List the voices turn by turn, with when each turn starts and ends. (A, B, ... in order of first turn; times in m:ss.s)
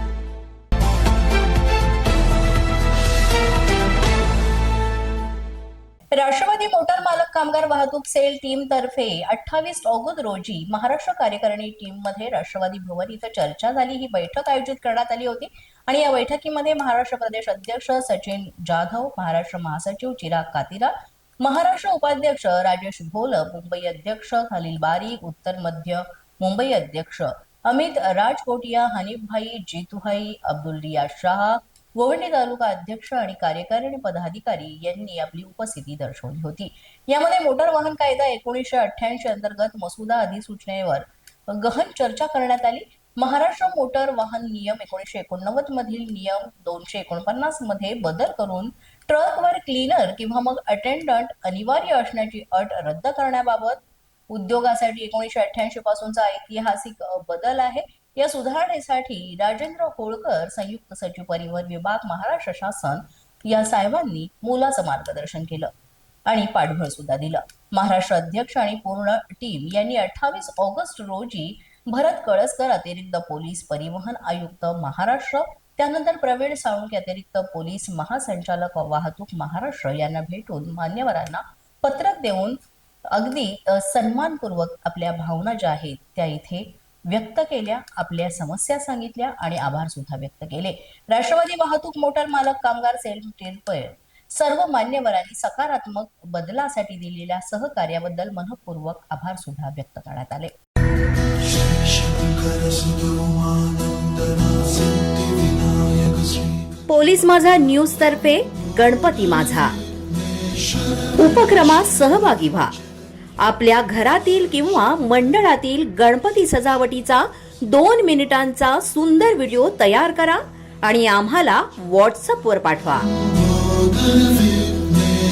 0:06.1-1:05.7 A
1:06.3-1:22.6 A
1:23.1-1:40.5 A
1:46.9-1:48.5 A
1:46.9-1:49.7 B
1:51.2-1:52.7 B
1:53.4-1:57.2 B
1:55.6-1:57.2 A
1:57.7-2:00.4 B
1:58.4-2:00.4 A
2:00.9-2:03.0 B